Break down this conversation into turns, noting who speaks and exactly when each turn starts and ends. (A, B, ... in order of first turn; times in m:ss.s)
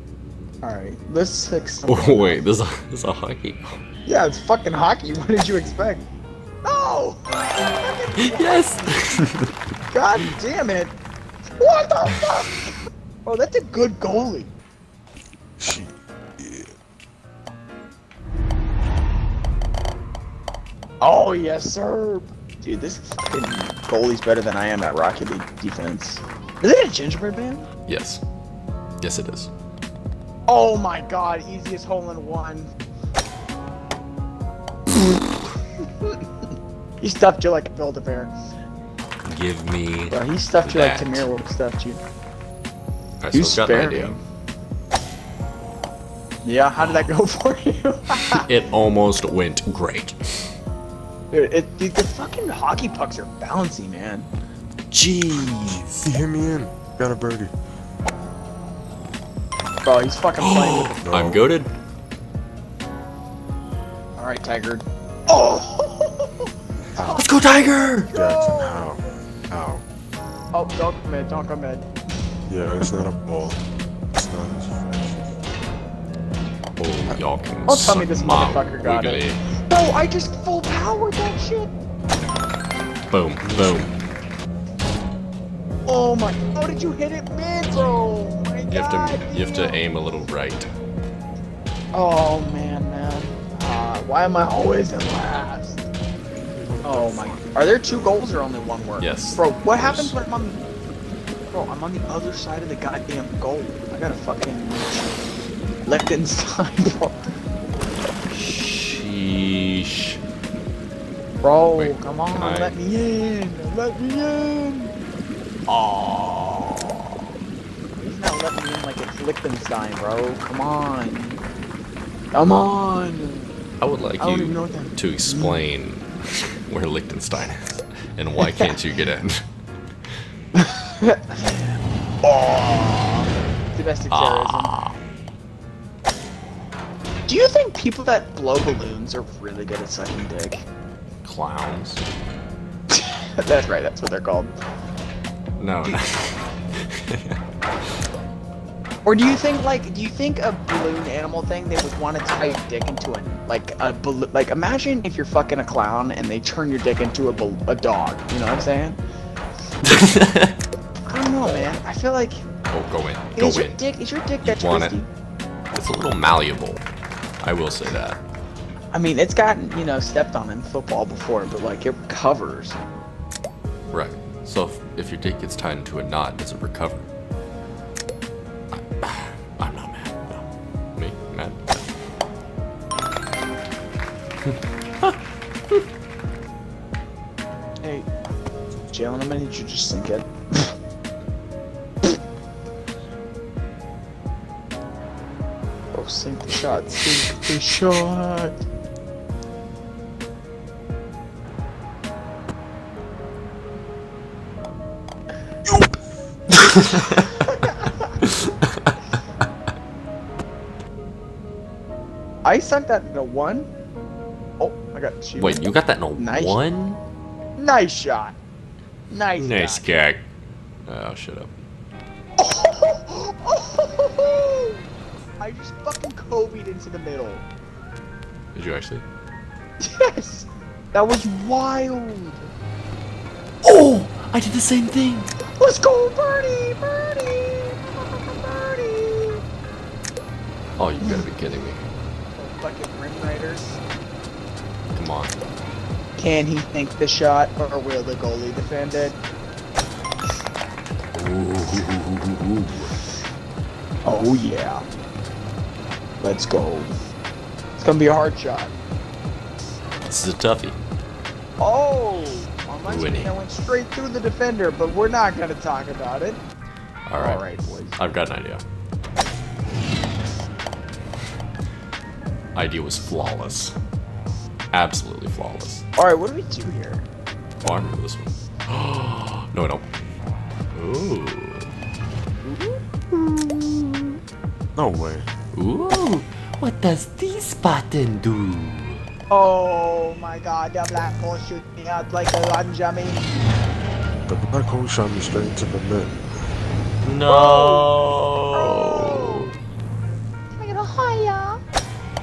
0:00.6-0:02.4 A
0:01.8-0:03.8 B
0:04.1-0:06.1 A
0:06.6-0:08.9 A
0:08.2-0:09.5 B
0:09.9-0:11.0 A
0:11.6-0:12.7 A
0:13.2-0:14.5 A
0:15.6-0:16.7 C
0:21.0-0:27.7 A
0:27.9-0:28.2 B
0:29.0-0:29.5 B
0:30.5-0:32.7 A
0:37.0-0:38.3 A
0:39.2-0:41.3 B
0:40.1-0:42.0 A
0:43.2-0:44.2 B
0:43.3-0:44.2 A
0:46.4-0:48.5 A
0:46.8-0:47.1 B
0:48.4-0:50.5 B
0:51.3-0:54.3 A
0:54.9-0:56.1 B
0:55.6-0:57.5 C
0:59.8-1:01.0 A
1:00.4-1:01.7 B
1:01.0-1:01.4 C
1:04.2-1:08.9 A
1:06.9-1:07.3 C
1:07.1-1:08.1 B
1:08.1-1:09.8 C
1:10.5-1:11.9 A
1:12.5-1:13.6 C
1:14.1-1:15.3 C
1:16.8-1:19.4 B
1:17.7-1:21.7 A
1:23.1-1:23.9 B
1:23.4-1:23.9 C
1:25.9-1:29.8 A
1:28.7-1:30.7 B
1:31.9-1:35.9 A
1:36.5-1:38.2 C
1:36.8-1:40.6 A
1:39.0-1:40.2 B
1:41.5-1:45.1 A
1:45.8-1:47.3 A
1:48.3-1:50.2 B
1:51.4-1:54.9 A
1:51.8-1:52.8 B
1:55.7-1:57.1 A
1:58.0-2:01.4 A
2:02.3-2:03.5 A
2:03.8-2:09.4 B
2:04.2-2:05.6 A
2:08.4-2:08.7 A
2:10.5-2:11.6 A
2:12.2-2:14.8 A
2:14.1-2:15.0 B
2:17.3-2:20.6 A
2:21.2-2:22.0 B
2:22.9-2:24.5 A
2:25.6-2:27.4 B
2:29.0-2:39.0 A
2:39.8-2:40.6 B
2:41.1-2:42.4 A
2:42.7-2:43.8 B
2:43.4-2:45.1 A
2:44.4-2:45.0 B
2:45.7-2:46.8 B
2:47.4-2:48.2 B
2:48.9-2:52.8 A
2:53.9-2:57.1 B
2:58.7-3:01.9 B
3:04.4-3:05.2 B
3:07.8-3:08.1 A
3:08.9-3:10.7 A
3:15.9-3:18.6 A
3:25.6-3:26.0 C
3:26.6-3:27.4 B
3:27.3-3:28.2 A
3:28.2-3:29.0 B
3:32.4-3:33.7 A
3:34.6-3:36.6 A
3:35.4-3:37.0 B
3:37.6-3:38.4 A
3:39.1-3:39.9 A
3:39.4-3:40.2 B
3:40.9-3:41.5 B
3:42.4-3:44.8 A
3:45.4-3:47.5 A
3:48.5-3:49.0 B
3:49.8-3:52.5 A
3:53.6-3:55.3 B
3:55.6-3:59.4 A
4:00.8-4:01.9 B
4:02.4-4:03.8 A
4:04.9-4:05.4 B
4:06.2-4:09.2 A
4:11.1-4:13.0 B
4:14.0-4:14.8 A
4:16.2-4:16.9 A
4:17.8-4:18.8 A
4:20.0-4:20.8 B
4:21.6-4:26.4 A
4:22.9-4:23.3 B
4:27.1-4:27.4 B
4:27.2-4:28.0 A
4:28.0-4:28.6 B
4:32.5-4:33.8 B
4:34.7-4:35.8 B
4:36.0-4:37.0 A
4:37.6-4:39.9 B
4:40.7-4:41.7 B
4:43.1-4:44.2 B
4:44.7-4:45.3 C
4:45.5-4:49.0 B
4:49.3-4:53.4 A
4:54.3-4:56.2 C
4:57.0-4:59.5 B
4:57.3-4:57.9 A
4:58.5-4:59.5 A
5:00.6-5:01.6 A